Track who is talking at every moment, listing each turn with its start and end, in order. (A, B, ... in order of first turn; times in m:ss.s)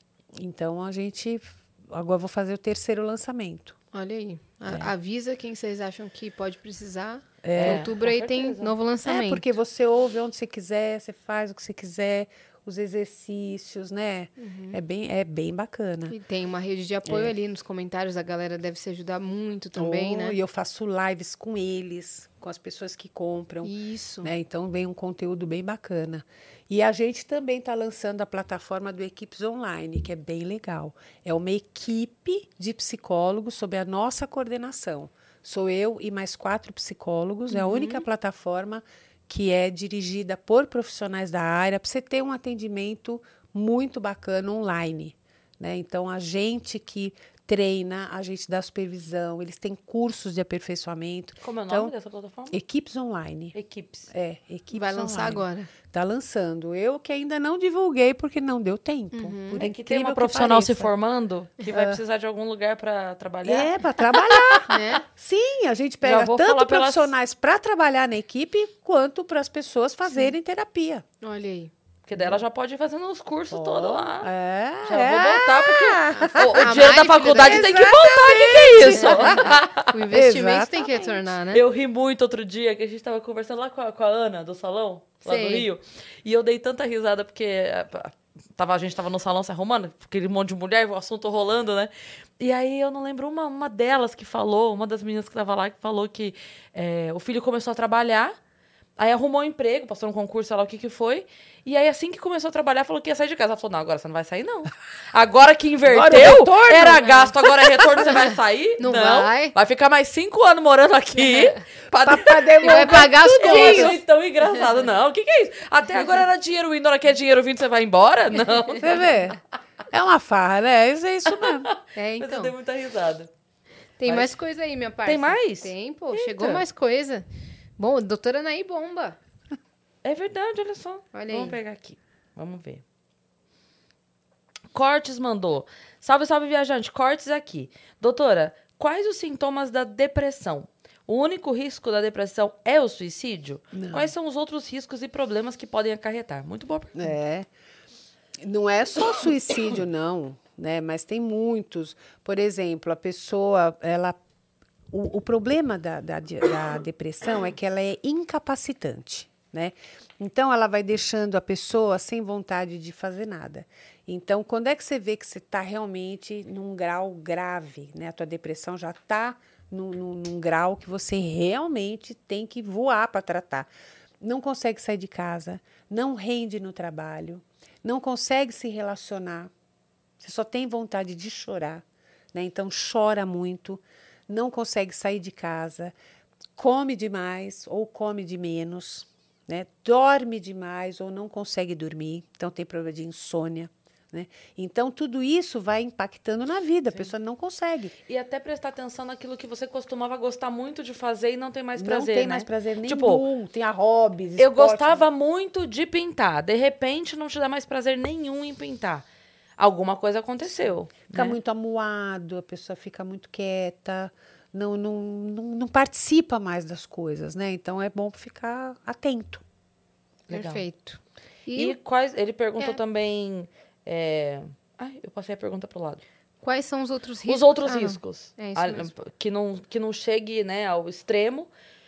0:00.3-0:03.8 A
0:03.9-0:09.4 B
0:07.4-0:07.9 A
0:07.6-0:08.8 C
0:09.0-0:16.1 A
0:14.4-0:14.8 B
0:16.1-0:20.4 B
0:17.0-0:17.3 A
0:19.8-0:51.9 A
0:23.6-0:24.3 B
0:37.5-0:38.0 B
0:51.4-0:52.5 C
0:52.5-0:53.6 A
0:53.5-0:54.1 C
0:54.1-1:00.9 A
0:54.7-0:55.7 B
0:59.1-0:59.6 B
0:59.6-1:04.7 C
1:01.7-1:02.0 A
1:03.4-1:11.0 A
1:04.7-1:05.0 B
1:06.0-1:07.1 C
1:11.2-1:11.7 B
1:12.1-1:14.3 C
1:13.5-1:19.5 A
1:14.8-1:19.9 C
1:16.1-1:17.8 B
1:18.9-1:21.6 B
1:20.1-1:21.1 A
1:21.5-1:38.4 C
1:25.2-1:25.7 B
1:39.0-1:59.1 C
1:45.8-1:48.1 A
1:48.8-1:49.5 B
1:52.0-1:54.0 A
1:52.6-1:54.0 B
1:58.8-1:59.4 A
1:59.9-2:01.7 A
2:01.3-2:03.3 C
2:02.0-2:02.4 B
2:04.0-2:07.2 B
2:05.0-2:05.7 C
2:07.8-2:09.2 B
2:10.0-2:12.8 C
2:11.1-2:11.6 B
2:14.7-2:27.2 C
2:23.7-2:24.1 A
2:27.0-2:27.5 A
2:28.4-2:34.2 A
2:34.9-2:53.7 A
2:54.2-2:59.5 A
3:00.2-3:06.0 A
3:06.6-3:17.9 A
3:18.1-3:23.2 C
3:21.8-3:25.0 A
3:24.4-3:29.0 C
3:29.6-3:31.4 C
3:31.1-3:39.4 A
3:40.3-3:40.6 C
3:40.3-3:41.8 B
3:41.5-3:46.0 C
3:46.4-3:48.9 B
3:47.2-3:51.5 C